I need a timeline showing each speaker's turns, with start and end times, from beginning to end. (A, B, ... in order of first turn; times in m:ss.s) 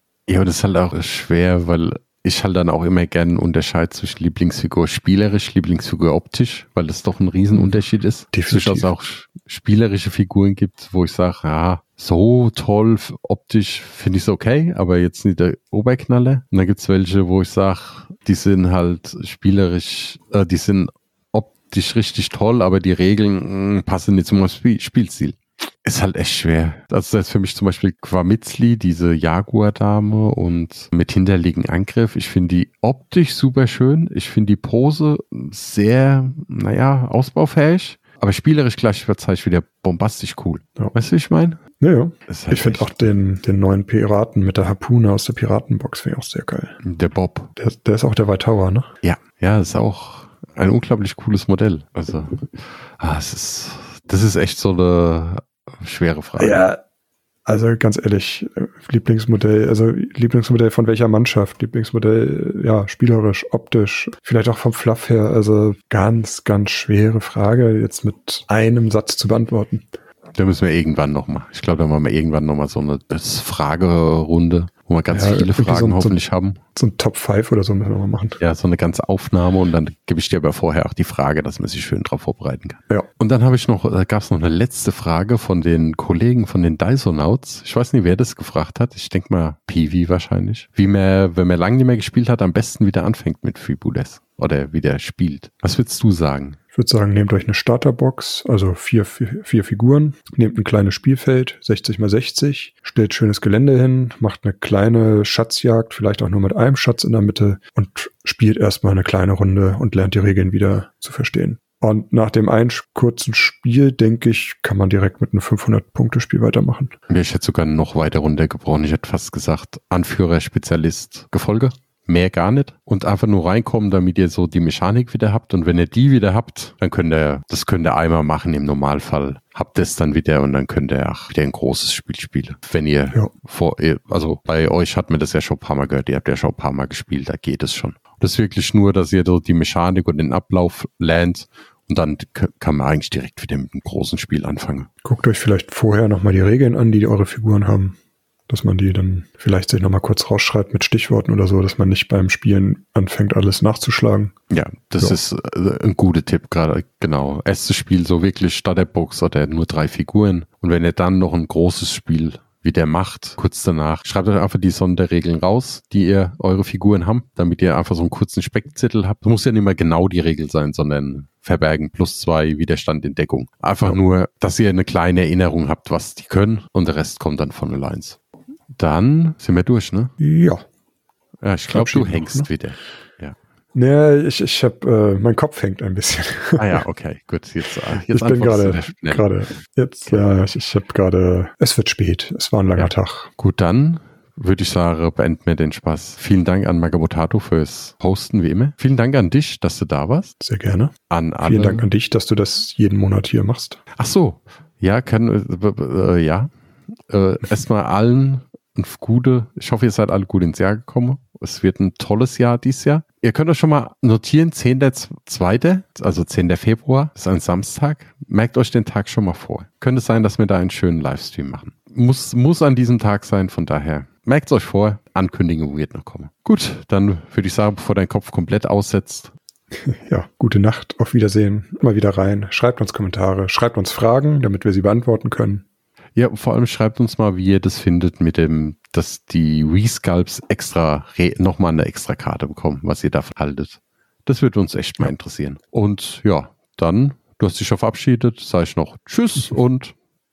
0:00.3-0:41.6 A
0:08.3-0:08.9 B
0:41.8-0:46.8 B
0:42.3-0:43.1 A
0:46.8-0:47.5 A
0:47.6-0:48.9 B
0:49.0-0:56.6 A
0:56.4-0:56.8 B
0:57.5-1:09.9 B
1:10.4-1:16.6 A
1:15.1-1:16.2 B
1:16.8-1:18.4 B
1:18.4-1:36.6 A
1:36.7-1:57.0 B
1:57.1-2:24.9 A
2:25.0-2:28.0 B
2:28.5-2:34.4 B
2:34.5-2:58.2 A
2:58.7-3:00.1 A
3:00.2-3:00.6 B
3:01.4-3:03.4 A
3:01.7-3:02.5 B
3:03.7-3:06.8 B
3:06.6-3:09.6 A
3:08.0-3:13.3 B
3:12.8-3:20.3 A
3:20.4-3:23.8 B
3:21.1-3:21.9 A
3:24.0-3:26.5 A
3:27.1-3:49.3 A
3:49.8-3:55.6 B
3:56.2-4:10.0 A